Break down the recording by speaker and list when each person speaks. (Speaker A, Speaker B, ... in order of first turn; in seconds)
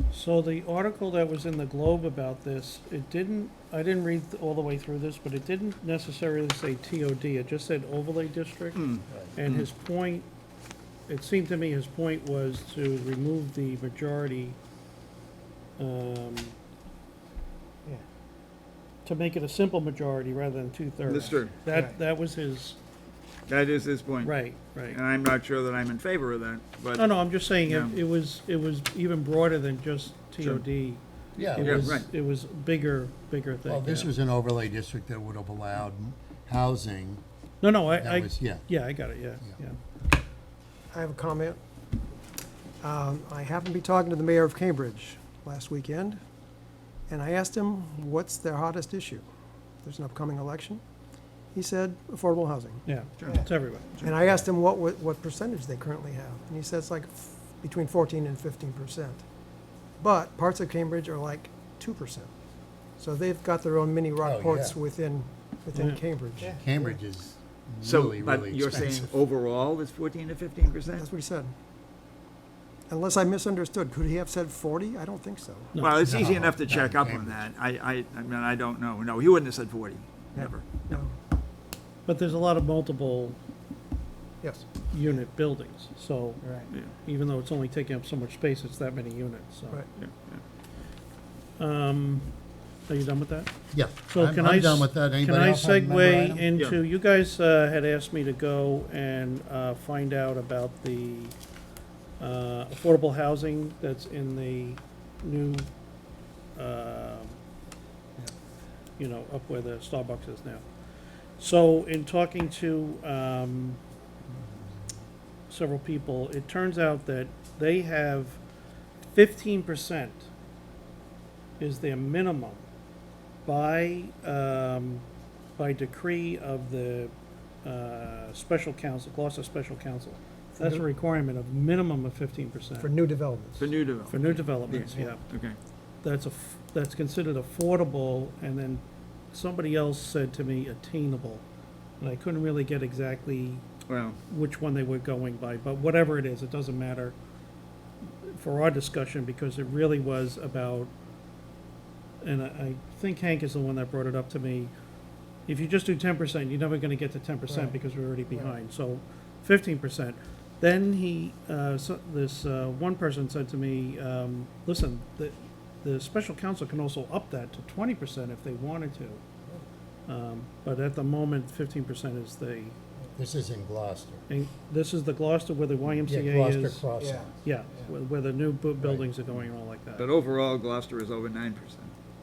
Speaker A: 0.1-10.2, 11.1-14.6, 15.8-16.6, 19.0-22.8, 24.2-25.0, 26.9-31.0, 31.5-34.1, 37.6-39.8, 52.9-54.0, 65.7-66.0, 75.7-76.1, 82.0-83.4, 84.9-89.8, 91.6-92.3, 92.9-93.5, 94.0-101.3, 102.2-105.7, 106.5-107.3, 109.0-110.6, 111.4-113.8, 115.5-118.4, 119.0-120.2, 121.6-122.6, 123.5-125.0, 125.6-132.9, 134.1-135.2, 136.0-141.4, 142.0-143.6, 144.3-147.2, 148.2-150.9, 152.2-154.7, 155.5-169.2, 170.1-172.8, 174.3-176.8, 177.4-180.1
Speaker B: 8.7-9.7, 21.1-21.5, 23.5-24.3, 24.9-28.0, 31.4-32.1, 67.8-71.1, 75.8-80.9, 90.0-90.4, 133.6-135.6, 143.9-144.2, 180.0-181.9
Speaker C: 9.1-9.3, 31.4-32.0, 33.6-37.2, 37.9-38.6, 64.2-64.8, 66.4-69.2, 76.0-77.5, 93.7-96.5, 173.1-174.3, 175.9-177.3, 178.8-179.5
Speaker D: 21.7-22.0, 40.9-41.6, 42.8-46.2, 47.1-49.2, 49.8-50.8, 51.5-53.3, 54.0-59.2, 60.0-62.3, 63.0-66.9, 70.7-71.5, 72.9-75.8, 80.3-81.1, 84.4-85.2, 86.4-86.7, 130.6-130.8, 132.8-133.7, 134.7-135.2, 157.5-157.8, 158.3-158.6, 177.0-177.3